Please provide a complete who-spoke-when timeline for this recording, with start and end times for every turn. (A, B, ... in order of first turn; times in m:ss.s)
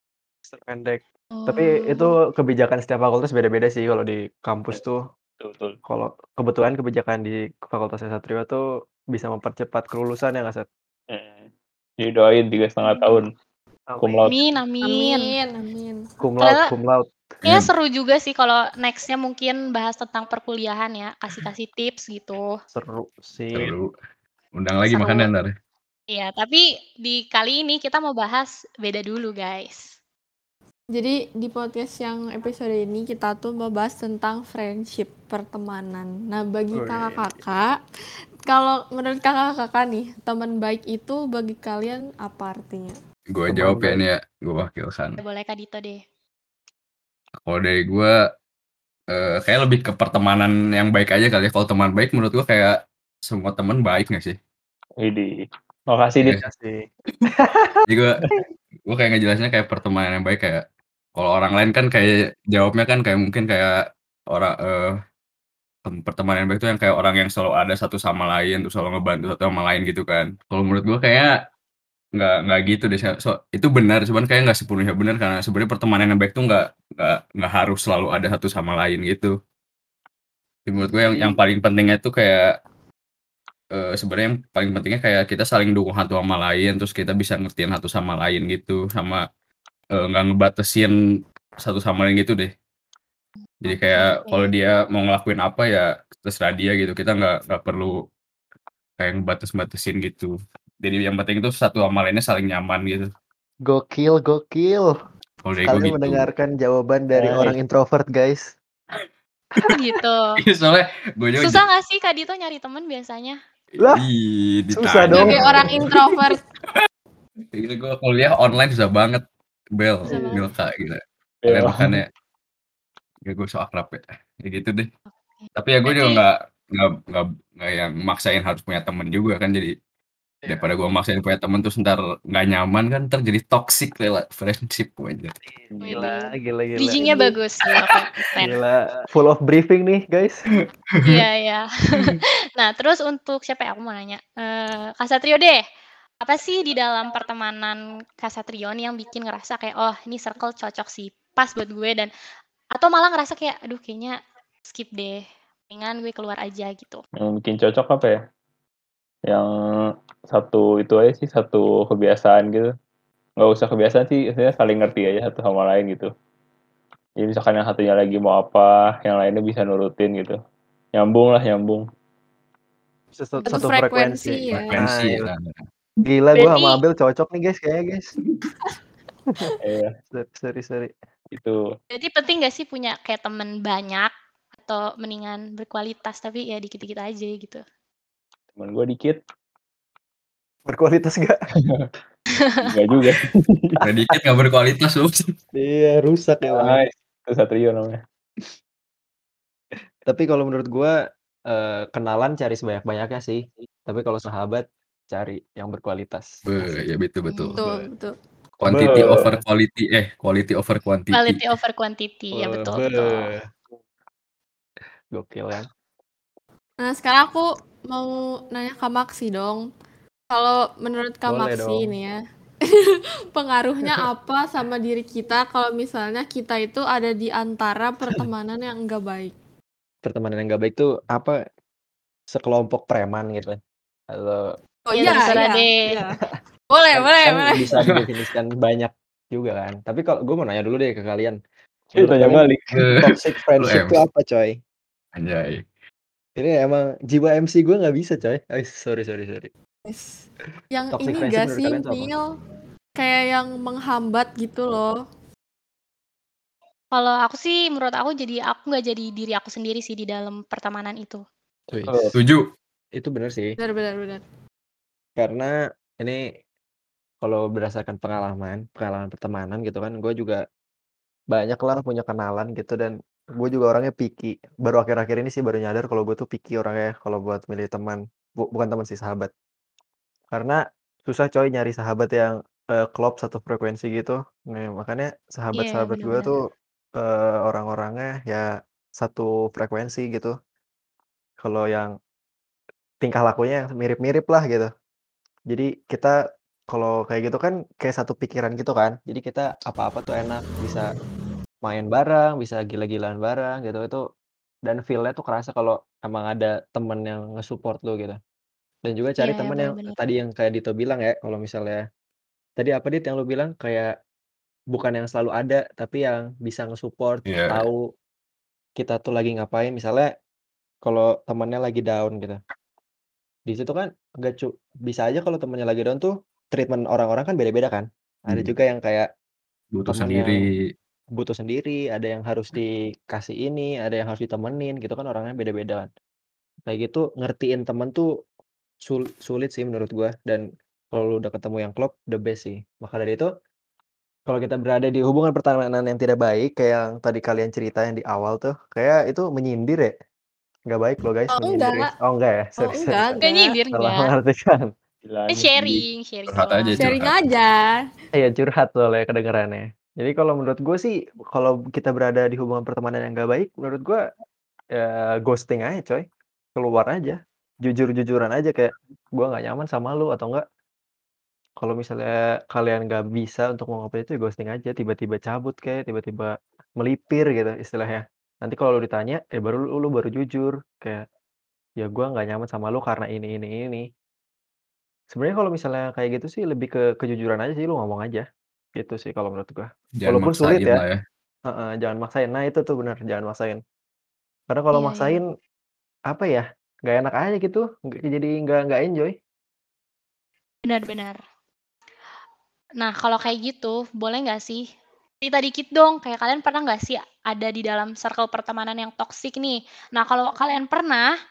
0:00.4-0:05.0 A
0:01.3-0:02.1 B
0:05.4-0:05.8 C
0:05.9-0:08.6 A
0:09.1-0:10.7 A
0:11.1-0:11.5 C
0:12.0-0:13.3 C
0:13.9-0:14.4 A
0:14.0-0:14.3 C
0:14.3-0:15.3 B
0:14.8-0:16.0 D
0:16.2-0:17.0 A
0:17.5-0:22.4 B
0:22.7-0:23.7 A
0:23.5-0:23.9 E
0:24.6-0:25.5 E
0:24.9-0:25.3 B
0:26.1-0:29.9 B
0:31.0-0:37.6 D
0:36.7-0:37.3 A
0:38.5-0:43.0 D
0:43.3-0:45.2 E
0:43.5-0:44.0 A
0:45.2-0:46.0 B
0:47.4-0:48.1 E
0:49.1-0:54.4 E
0:55.0-0:55.3 C
0:55.9-0:56.4 C
0:56.4-0:57.8 A
0:57.9-0:58.3 E
0:58.9-1:00.6 E
1:01.2-1:03.8 E
1:04.3-1:04.9 E
1:05.8-1:11.3 E
1:12.2-1:19.3 E
1:20.7-1:22.5 E
1:23.7-1:29.2 E
1:30.0-1:31.0 E
1:31.6-1:32.5 E
1:33.6-1:37.9 E
1:33.7-1:34.5 B
1:39.0-1:40.3 E
1:40.8-1:43.1 E
1:43.7-1:44.9 A
1:45.4-1:46.3 E
1:45.7-1:48.6 A
1:47.2-1:47.6 C
1:49.6-1:49.8 E
1:49.6-1:50.3 B
1:50.4-1:51.6 E
1:51.4-1:53.4 B
1:53.7-1:56.0 E
1:53.8-1:54.0 A
1:54.7-1:55.8 A
1:55.1-1:55.4 B
1:55.1-1:56.4 D
1:57.5-1:59.2 E
1:59.8-2:02.1 E
2:00.1-2:00.4 B
2:01.4-2:02.0 C
2:03.3-2:04.9 E
2:05.4-2:06.2 B
2:05.6-2:09.7 E
2:10.5-2:15.4 E
2:15.7-2:17.2 A
2:15.8-2:18.5 B
2:17.0-2:17.3 D
2:17.7-2:18.4 E
2:18.4-2:20.4 A
2:21.0-2:25.6 B
2:26.2-2:32.1 B
2:32.7-2:37.0 B
2:37.2-2:38.2 C
2:39.3-2:42.7 C
2:43.4-2:46.1 C
2:47.2-2:50.4 C
2:51.0-2:51.8 C
2:53.2-2:55.3 A
2:53.4-2:53.7 B
2:53.5-2:54.7 D
2:54.7-2:55.6 E
2:56.0-2:58.1 A
2:56.4-2:56.8 B
2:59.6-2:59.9 C
3:00.1-3:00.9 A
3:01.3-3:01.6 C
3:01.9-3:07.6 B
3:08.6-3:09.2 C
3:10.7-3:11.4 A
3:11.6-3:11.9 C
3:12.4-3:12.8 B
3:12.6-3:13.8 C
3:13.8-3:15.3 E
3:15.6-3:16.8 A
3:16.5-3:18.0 C
3:20.1-3:21.0 A
3:21.5-3:26.8 A
3:26.4-3:27.6 E
3:27.3-3:27.6 B
3:27.6-3:28.1 D
3:28.6-3:29.4 A
3:28.6-3:31.5 E
3:28.7-3:29.3 C
3:31.1-3:33.3 B
3:32.4-3:33.5 A
3:35.1-3:35.7 A
3:36.8-3:39.6 D
3:40.3-3:42.2 D
3:41.3-3:41.9 A
3:42.7-3:49.3 D
3:50.0-3:51.4 A
3:52.3-3:53.6 A
3:54.1-3:54.5 A
3:54.9-3:56.2 D
3:55.0-3:55.8 B
3:55.0-3:55.4 A
3:56.7-3:57.7 D
3:56.9-4:01.4 A
4:02.0-4:02.8 C
4:02.0-4:04.6 A
4:02.7-4:04.0 E
4:05.2-4:05.6 E
4:06.4-4:09.5 A
4:09.9-4:12.2 D
4:10.9-4:12.1 A
4:13.0-4:14.9 D
4:16.9-4:21.2 B
4:21.7-4:22.2 A
4:21.9-4:22.2 C
4:22.2-4:22.5 E
4:23.0-4:23.6 A
4:23.6-4:24.2 D
4:25.2-4:26.2 A
4:27.2-4:30.4 A
4:31.3-4:39.3 A
4:40.3-4:46.4 A
4:45.6-4:46.3 B
4:47.0-4:50.3 A
4:51.4-4:51.9 A
4:53.0-4:54.7 A
4:55.5-4:56.2 A
4:56.7-5:00.9 A
5:01.6-5:04.0 A
5:04.6-5:08.2 A
5:08.8-5:11.8 A
5:09.2-5:10.0 B
5:12.6-5:13.9 A
5:14.7-5:17.8 A
5:17.3-5:17.7 E
5:18.8-5:20.1 A
5:20.8-5:22.4 A
5:23.5-5:29.1 A
5:29.7-5:30.6 E
5:29.9-5:30.4 A
5:31.2-5:35.9 A
5:36.7-5:38.1 A
5:38.8-5:43.3 A
5:44.3-5:49.9 A
5:50.7-5:53.2 A
5:51.3-5:51.9 D
5:52.6-5:53.5 D
5:53.2-5:54.1 B
5:53.7-5:54.7 A
5:55.0-5:55.8 C
5:55.3-5:56.9 B
5:56.3-5:57.2 E
5:56.8-5:57.8 D
5:58.1-6:04.0 A
6:04.8-6:06.0 A
6:06.6-6:10.4 A
6:11.6-6:21.0 A
6:21.8-6:23.8 A
6:25.1-6:28.2 A
6:28.8-6:30.8 A
6:30.0-6:31.0 E
6:31.5-6:33.6 A
6:34.5-6:35.2 A
6:34.7-6:35.2 B
6:36.1-6:39.2 A
6:40.6-6:41.2 B
6:42.8-6:44.7 B
6:45.2-6:51.1 B